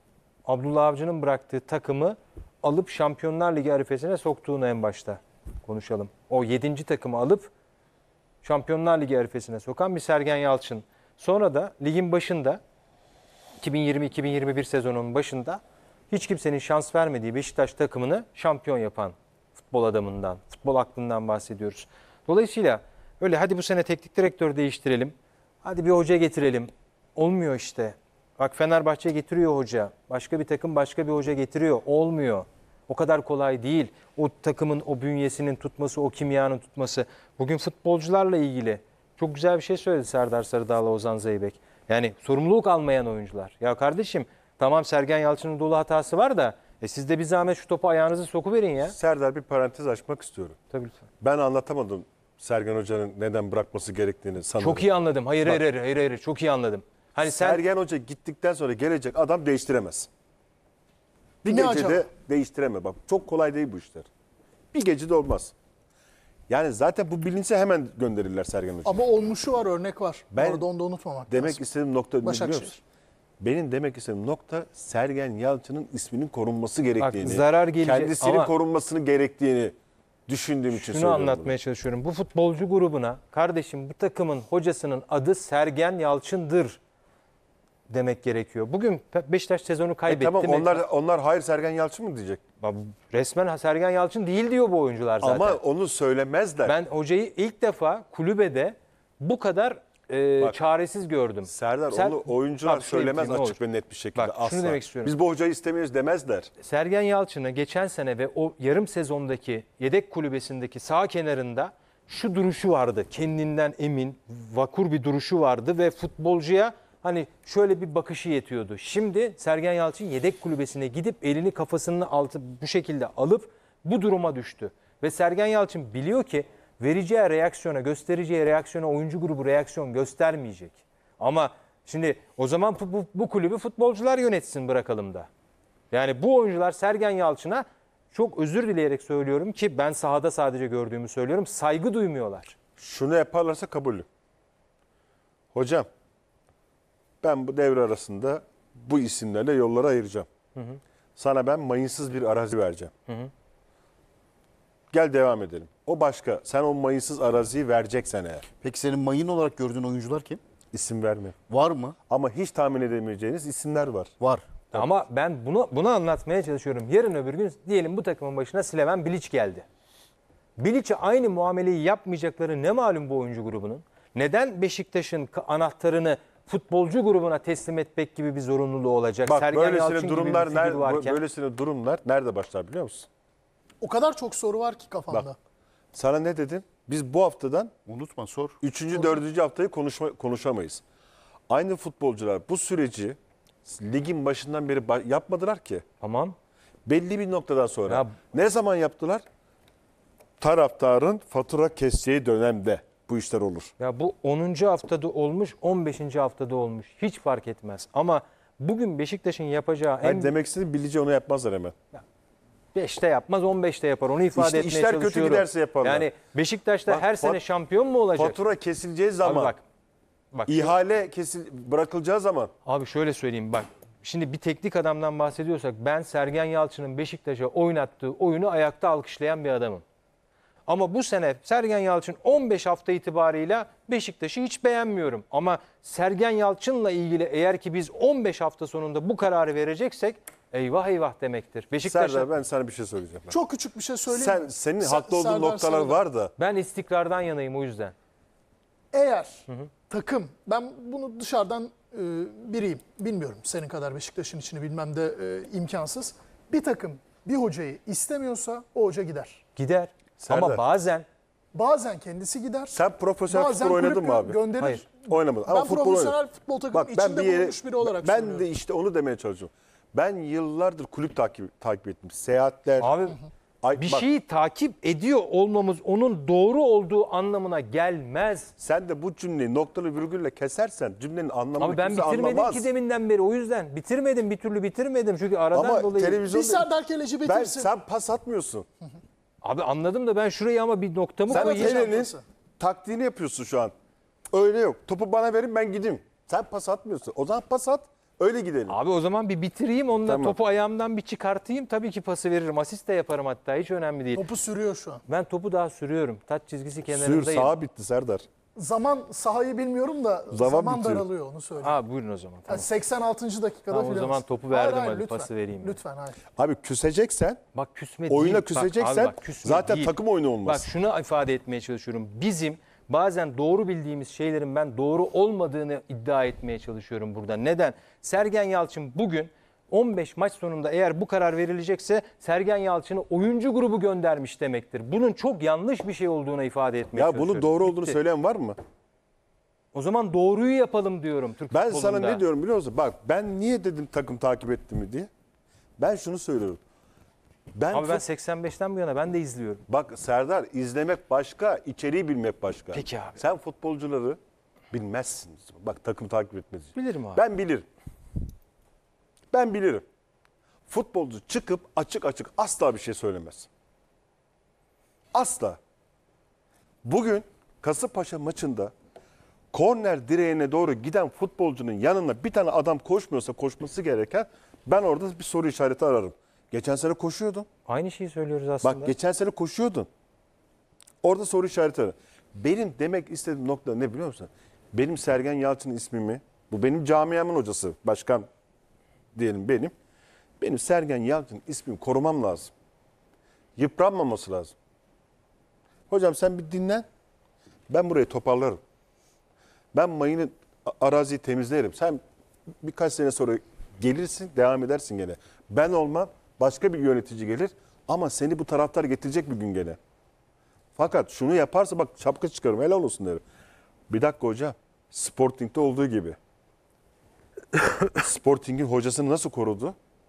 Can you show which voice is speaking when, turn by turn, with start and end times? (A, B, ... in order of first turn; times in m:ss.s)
0:00.5-0:07.5 A
0:08.4-0:12.6 A
0:13.6-0:49.0 A
0:48.9-0:50.6 B
0:50.7-0:51.0 A
0:51.2-0:54.9 B
0:54.6-0:57.6 A
0:57.2-1:00.1 B
1:01.4-1:04.1 B
1:01.5-1:02.1 C
1:04.7-1:05.5 B
1:06.5-1:09.0 B
1:08.8-1:11.6 C
1:10.3-1:10.6 B
1:11.3-1:12.8 B
1:12.2-1:12.8 C
1:13.4-1:19.8 B
1:17.0-1:18.5 A
1:20.3-1:21.5 B
1:20.7-1:26.8 A
1:27.9-1:30.8 A
1:30.0-1:32.4 B
1:32.6-1:35.6 A
1:35.2-1:36.8 B
1:36.6-1:43.6 A
1:41.5-1:46.5 B
1:44.2-1:45.1 A
1:46.6-2:15.3 A
2:15.9-2:22.6 A
2:22.8-2:24.1 B
2:25.5-2:25.9 B
2:27.2-2:30.3 B
2:30.6-2:30.8 A
2:31.2-2:32.9 B
2:34.9-2:38.4 B
2:38.6-2:40.4 D
2:40.7-2:41.4 B
2:41.5-2:42.0 D
2:42.1-2:44.1 B
2:44.7-2:49.7 A
2:50.6-3:01.2 A
2:59.2-3:03.1 B
3:03.8-3:05.4 C
3:05.9-3:07.7 B
3:07.9-3:08.6 D
3:08.6-3:10.8 B
3:08.9-3:09.2 C
3:11.5-3:15.8 B
3:16.0-3:16.4 A
3:16.9-3:19.2 B
3:17.9-3:18.2 A
3:20.4-3:23.7 B
3:23.8-3:30.3 A
3:30.0-3:31.8 B
3:32.7-3:38.4 A
3:34.4-3:36.1 B
3:36.9-3:37.4 B
3:38.2-3:39.5 B
3:39.2-3:39.6 A
3:40.3-3:40.8 A
3:40.5-3:42.5 B
3:42.6-3:49.8 A
3:50.7-4:02.3 A
4:01.8-4:03.4 B
4:03.3-4:06.0 C
4:04.1-4:06.3 B
4:06.4-4:07.9 A
4:08.9-4:19.4 C
4:19.6-4:21.1 A
4:20.2-4:20.6 B
4:21.5-4:28.4 C
4:22.7-4:24.4 B
4:25.0-4:26.2 B
4:26.7-4:32.9 B
4:32.8-4:33.2 A
4:33.6-4:34.1 B
4:33.8-4:38.5 A
4:38.6-4:42.7 B
4:41.6-4:46.2 A
4:45.5-4:46.7 B
4:46.2-4:47.7 C
4:47.2-4:48.7 B
4:49.4-4:51.8 A
4:51.3-4:52.2 C
4:51.3-4:53.7 B
4:54.3-4:58.8 B
4:58.7-5:04.2 A
5:00.0-5:00.4 B
5:04.2-5:05.0 C
5:05.1-5:07.6 A
5:06.9-5:08.2 B
5:08.6-5:11.8 C
5:10.3-5:11.1 B
5:11.6-5:12.7 A
5:12.5-5:16.2 C
5:13.7-5:15.8 A
5:16.4-5:17.4 B
5:17.5-5:38.0 A
5:18.1-5:20.7 B
5:36.9-5:38.6 B
5:39.7-5:42.2 A
5:41.5-5:45.1 B
5:45.8-5:46.6 B
5:47.5-5:48.0 B
5:47.7-5:49.6 A
5:49.7-5:54.2 B
5:52.7-5:53.2 A
5:54.7-5:57.7 B
5:56.8-5:57.2 A
5:59.3-5:59.8 B
6:00.7-6:03.5 B
6:05.1-6:05.6 B
6:06.8-6:08.7 B
6:09.5-6:17.5 B
6:17.7-6:18.9 A
6:18.6-6:19.9 B
6:21.0-6:28.3 B
6:29.1-6:29.7 B
6:30.4-6:32.5 B
6:33.6-6:34.5 B
6:35.9-6:36.8 B
6:37.7-6:38.6 B
6:39.7-6:42.0 B
6:42.6-6:49.8 B
6:50.8-6:53.2 B
6:53.9-6:56.2 B
6:57.9-6:59.8 B